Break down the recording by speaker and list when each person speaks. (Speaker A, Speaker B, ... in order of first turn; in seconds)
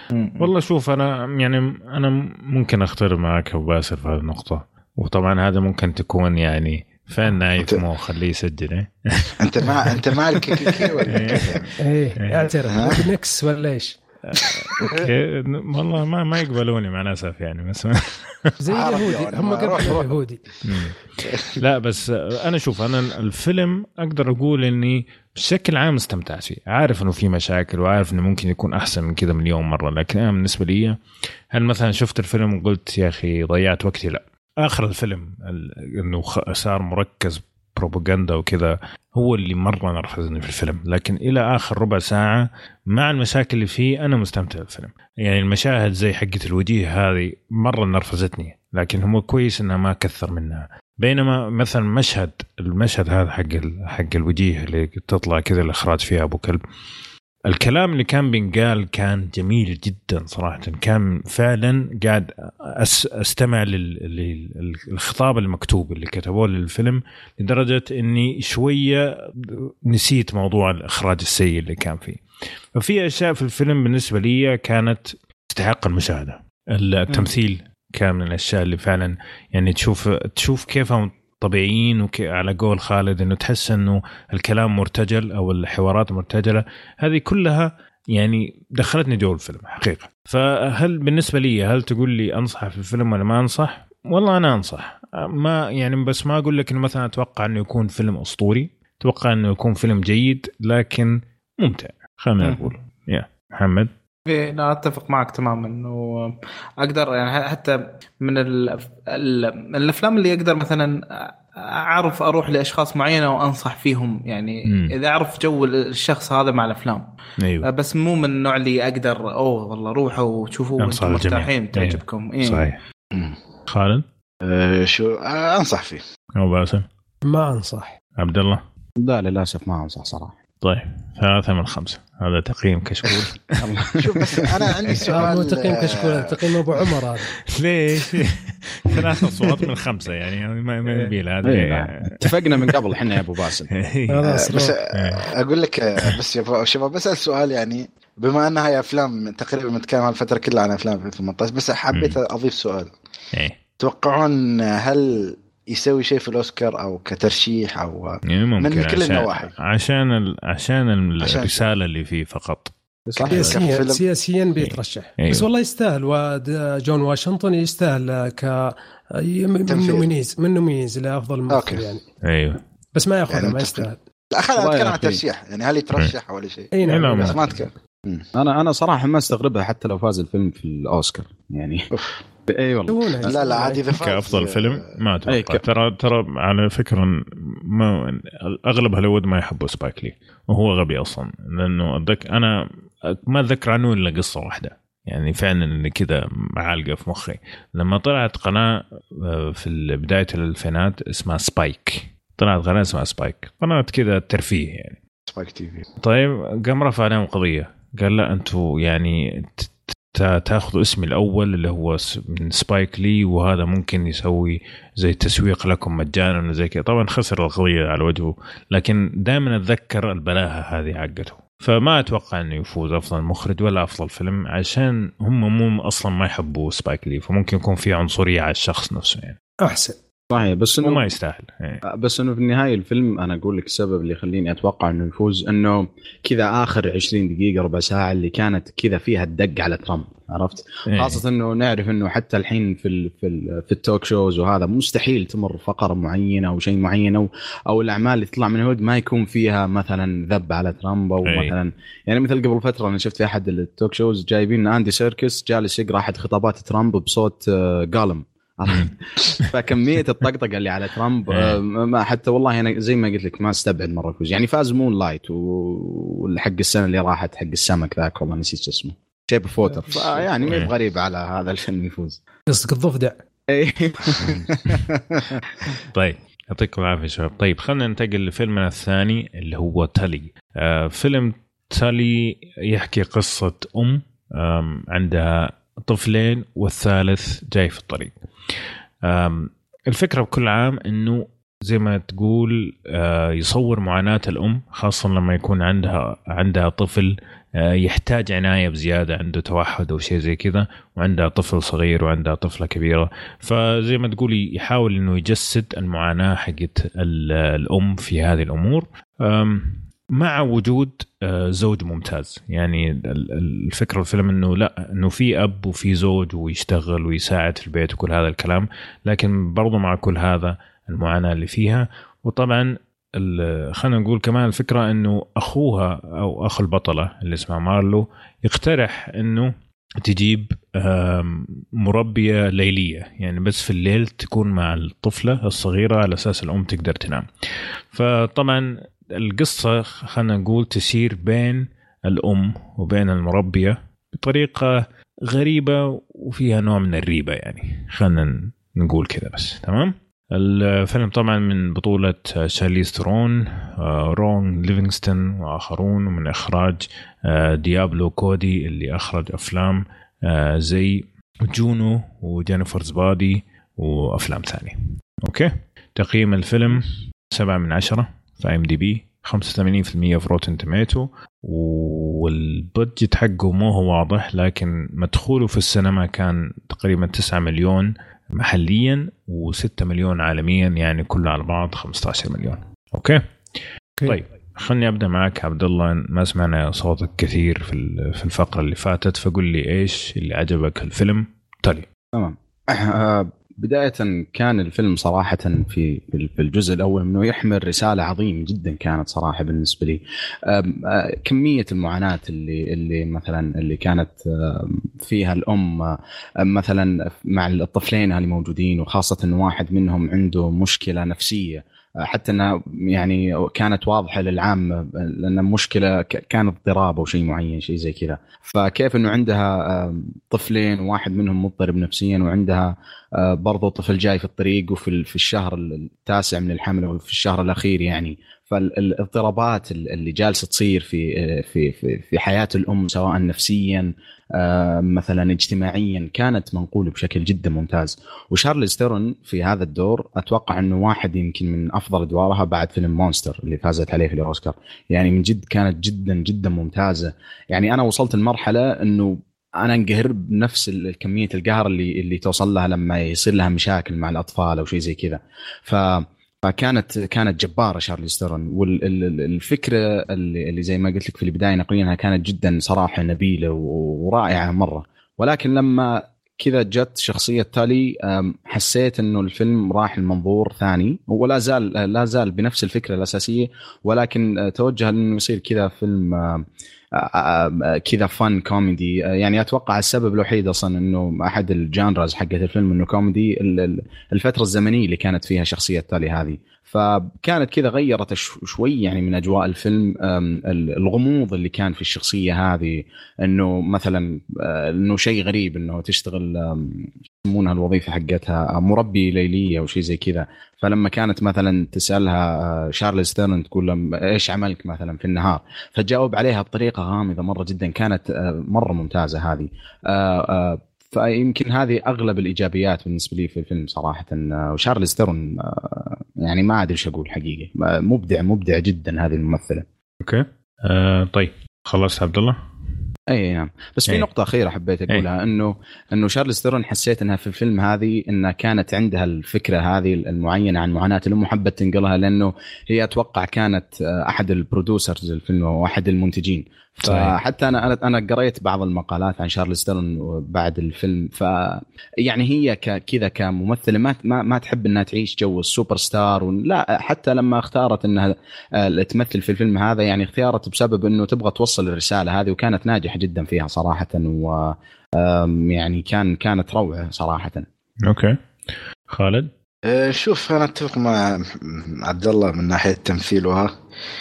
Speaker A: 0.1-0.5, 102.4-102.7, 104.3-117.0, 117.6-122.7, 140.8-141.1
Speaker B: 0.4-11.7, 12.2-12.5, 14.3-18.5, 20.6-31.0, 31.5-56.6, 57.5-72.2, 72.7-103.9, 114.7-114.9, 117.4-117.7, 120.8-122.8, 123.7-124.0, 126.4-126.8, 128.2-128.6, 130.6-133.6, 137.5-142.8, 143.7-145.3, 151.9-152.2, 158.3-162.7, 164.6-165.4, 172.2-172.6, 176.8-177.4, 183.9-192.5, 193.1-205.0, 206.0-229.4, 230.8-231.8, 240.9-241.2, 251.2-251.5, 261.3-261.6, 270.4-270.7, 275.9-288.1, 289.0-337.2, 337.9-383.2, 384.0-391.9, 520.0-522.4, 536.8-537.1, 557.9-558.2, 558.9-559.3
Speaker C: 9.4-11.7, 12.7-13.0, 18.7-20.1, 123.1-123.4, 124.4-126.0, 134.0-136.3, 144.2-152.9, 153.8-159.5, 161.2-161.6, 163.2-164.0, 169.7-170.1, 171.5-171.8, 173.3-178.3, 181.9-182.2, 183.2-184.8, 205.3-205.8, 559.6-563.5
Speaker D: 11.8-14.0, 14.8-15.1, 18.6-20.4, 127.2-128.0, 135.0-137.3, 144.1-144.7, 163.3-172.0, 172.9-174.0, 176.7-177.4, 182.9-183.8, 229.6-229.9, 272.5-273.2
Speaker E: 129.0-130.3, 133.6-134.7, 141.4-143.7, 163.1-163.6, 174.6-175.2, 178.3-181.9, 182.5-183.3, 185.3-185.6, 230.3-231.1, 231.9-272.2, 273.5-275.4, 392.1-519.6, 523.1-557.5